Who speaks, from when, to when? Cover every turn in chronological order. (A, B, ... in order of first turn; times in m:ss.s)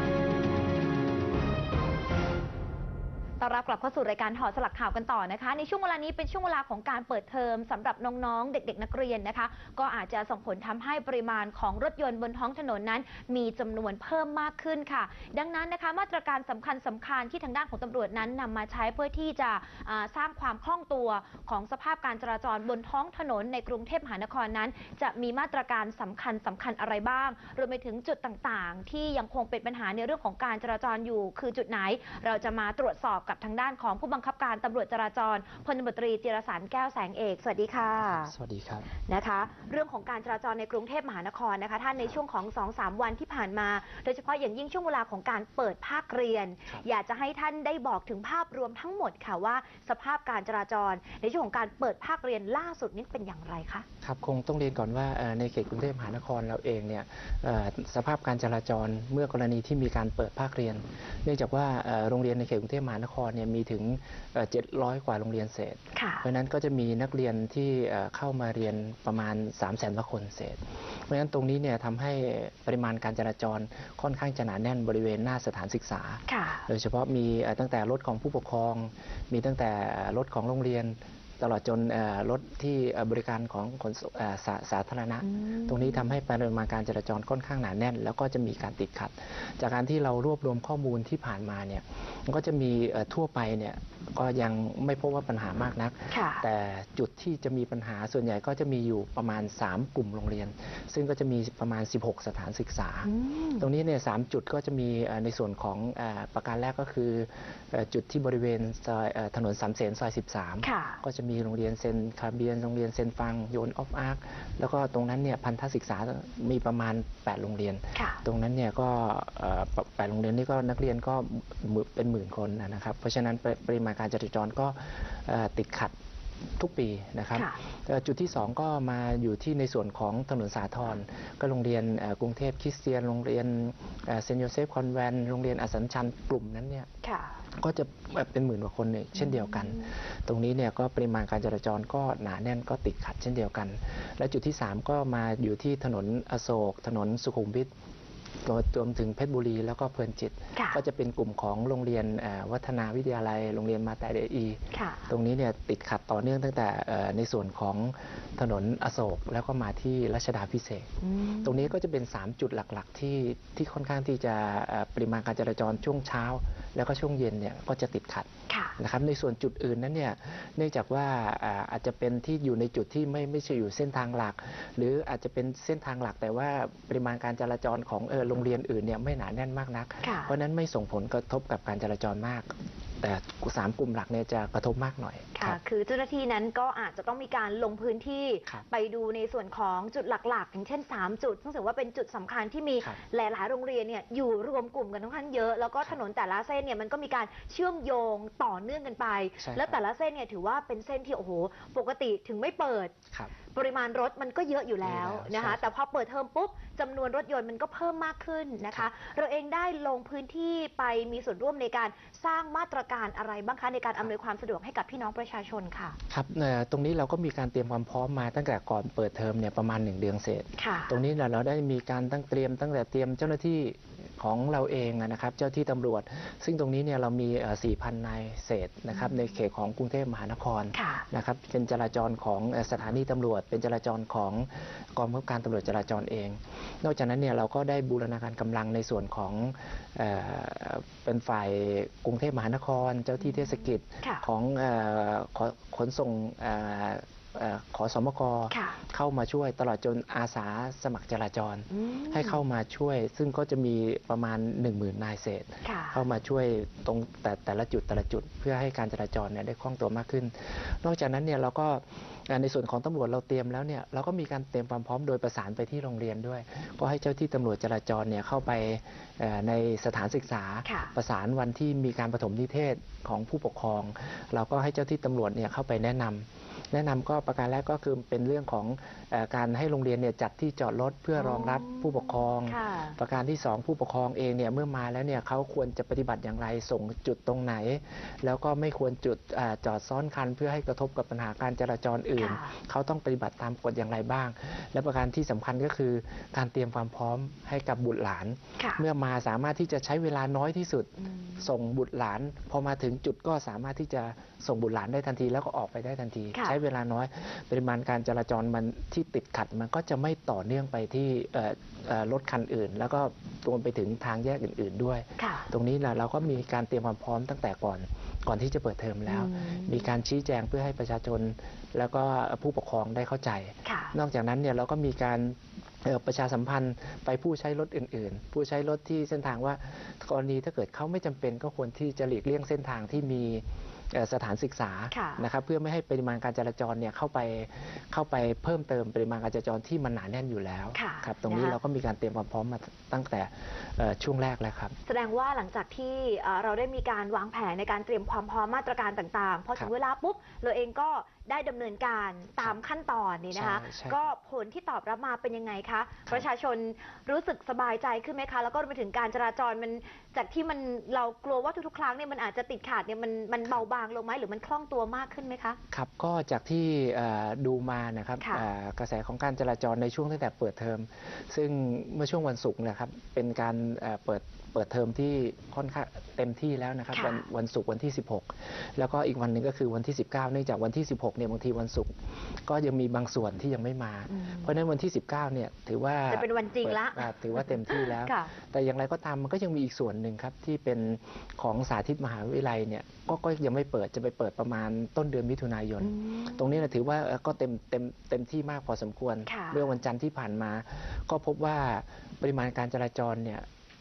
0:03.4-0:38.3 A
0:38.0-0:38.9 B
0:39.0-0:53.8 A
0:54.0-2:05.9 B
1:05.9-1:06.2 A
1:16.3-1:16.7 A
1:25.2-1:26.0 A
1:36.1-1:36.4 A
1:43.0-1:43.7 A
1:50.6-1:51.0 A
1:57.9-1:58.2 A
2:06.6-2:16.9 B
2:07.3-2:07.6 A
2:17.0-2:17.4 A
2:17.6-2:27.7 B
2:19.2-2:19.9 A
2:28.4-2:40.9 B
2:30.5-2:30.8 A
2:34.7-2:35.1 A
2:41.0-2:41.7 A
2:41.4-2:48.3 B
2:48.5-2:48.8 A
2:48.8-3:05.6 B
3:00.0-3:00.3 A
3:05.3-3:22.9 A
3:19.4-3:19.8 B
3:23.5-3:36.0 A
3:24.8-3:25.6 B
3:36.1-5:44.7 B
3:40.6-3:41.0 A
3:50.7-3:51.0 A
4:08.5-4:08.8 A
4:11.7-4:12.4 A
4:15.6-4:16.0 A
4:30.6-4:30.9 A
4:41.2-4:43.0 A
4:52.2-4:52.5 A
4:58.6-4:58.8 A
5:01.1-5:01.4 A
5:15.2-5:15.5 A
5:19.1-5:19.9 A
5:23.6-5:23.9 A
5:34.9-5:35.2 A
5:40.7-5:41.6 A
5:44.8-6:05.6 A
5:53.3-5:54.1 B
6:05.7-6:43.4 B
6:08.2-6:08.5 A
6:16.9-6:17.2 A
6:24.1-6:24.5 A
6:26.1-6:28.3 A
6:35.8-6:36.6 A
6:39.2-6:39.7 A